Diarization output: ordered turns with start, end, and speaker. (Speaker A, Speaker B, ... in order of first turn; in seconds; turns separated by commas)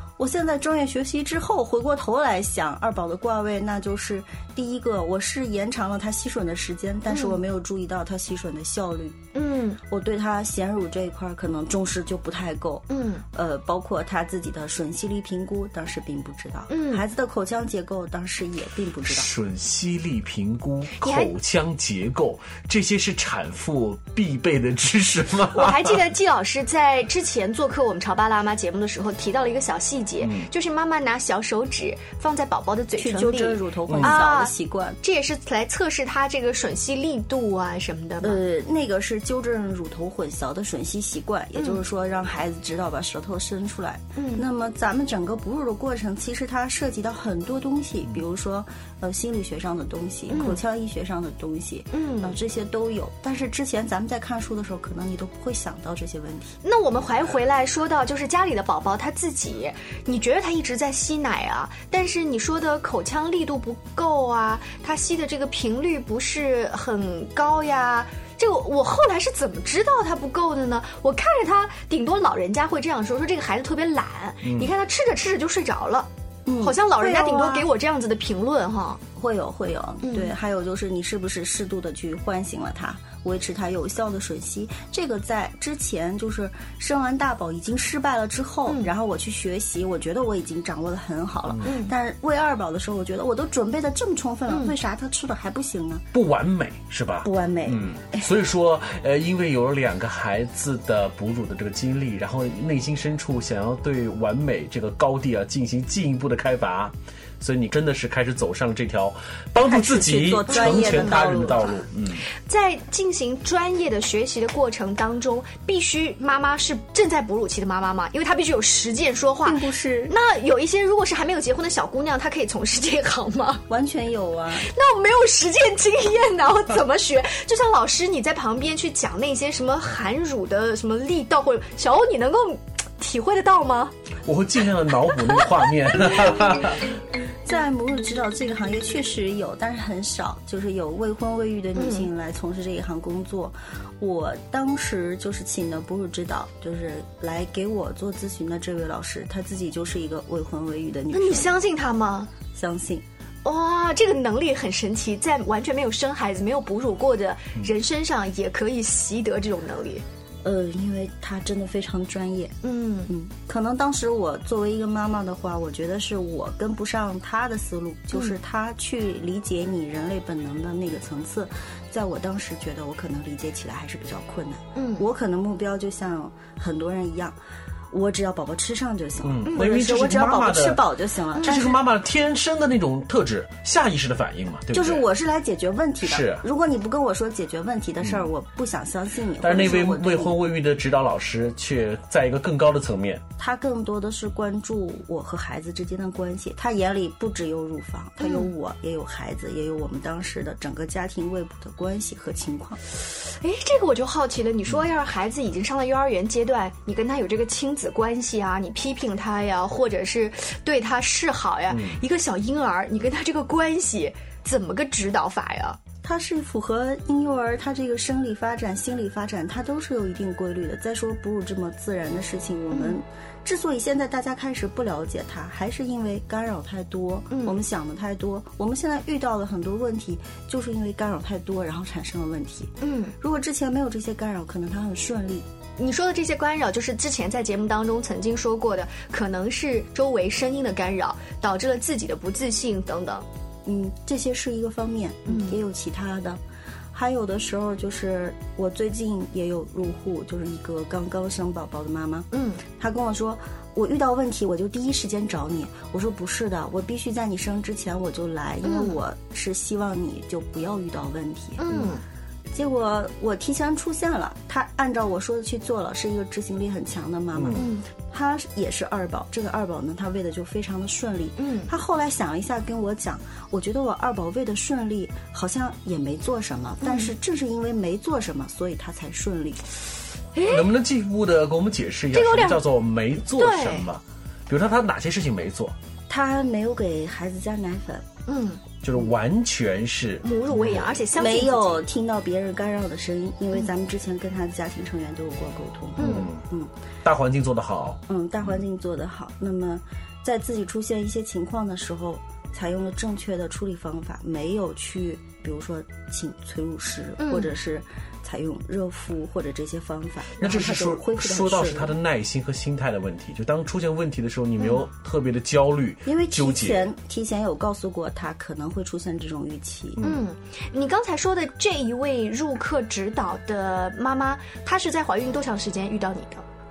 Speaker A: 0.2-9.2, Speaker B: 7.1-7.4, Speaker B: 9.3-9.8, Speaker A: 9.8-19.3, Speaker B: 12.9-13.2, Speaker B: 16.7-17.0, Speaker C: 19.1-25.9, Speaker B: 21.0-21.3, Speaker B: 25.5-38.4, Speaker C: 30.2-30.5, Speaker A: 33.0-35.0, Speaker C: 33.9-34.1, Speaker A: 38.2-56.6, Speaker B: 44.2-44.5, Speaker B: 50.3-50.6, Speaker B: 51.9-52.4, Speaker B: 56.6-76.1, Speaker C: 74.4-74.7, Speaker A: 76.4-77.7, Speaker B: 76.6-79.0, Speaker A: 79.2-96.1, Speaker B: 80.0-80.3, Speaker B: 88.7-88.9, Speaker B: 91.6-91.9, Speaker B: 94.5-94.8, Speaker C: 96.1-112.2, Speaker A: 97.2-98.2, Speaker A: 109.6-111.8, Speaker B: 110.5-111.2, Speaker B: 112.5-123.6, Speaker A: 119.4-120.2, Speaker A: 123.7-124.7, Speaker B: 124.7-133.9, Speaker C: 134.2-136.9, Speaker A: 137.4-151.5, Speaker B: 141.8-142.1, Speaker B: 151.1-152.3, Speaker A: 152.5-153.0, Speaker B: 153.4-160.0, Speaker A: 160.4-177.4, Speaker B: 162.6-163.1, Speaker B: 174.8-175.1, Speaker A: 177.9-181.8, Speaker C: 179.2-180.8, Speaker B: 179.5-179.7, Speaker B: 181.4-181.7, Speaker C: 181.4-185.1, Speaker A: 184.7-190.4, Speaker C: 186.0-186.4, Speaker C: 189.4-193.2, Speaker A: 193.4-202.8, Speaker B: 198.2-198.5, Speaker B: 203.1-215.8, Speaker C: 211.7-212.0, Speaker A: 216.0-235.5, Speaker B: 222.7-223.0, Speaker B: 227.3-227.6, Speaker B: 232.8-233.1, Speaker B: 235.8-243.2, Speaker A: 243.6-246.4, Speaker B: 245.3-245.6, Speaker A: 246.9-261.8, Speaker B: 252.3-252.6, Speaker B: 258.6-259.0, Speaker B: 261.6-262.0, Speaker A: 262.5-279.6, Speaker C: 267.4-267.6, Speaker B: 267.6-267.9, Speaker B: 271.4-271.7, Speaker B: 276.8-277.1, Speaker B: 280.4-280.7, Speaker C: 280.4-285.8, Speaker B: 282.1-282.6, Speaker B: 283.4-283.9, Speaker A: 286.1-288.1, Speaker B: 288.3-288.6, Speaker C: 288.8-290.9, Speaker B: 290.2-291.8, Speaker A: 291.1-296.7, Speaker B: 296.0-296.3, Speaker C: 296.0-296.4, Speaker C: 297.0-298.0, Speaker A: 298.1-312.0, Speaker B: 307.2-307.5, Speaker C: 310.4-316.9, Speaker B: 314.6-314.8, Speaker A: 316.0-320.0, Speaker C: 320.0-320.2, Speaker B: 320.0-326.4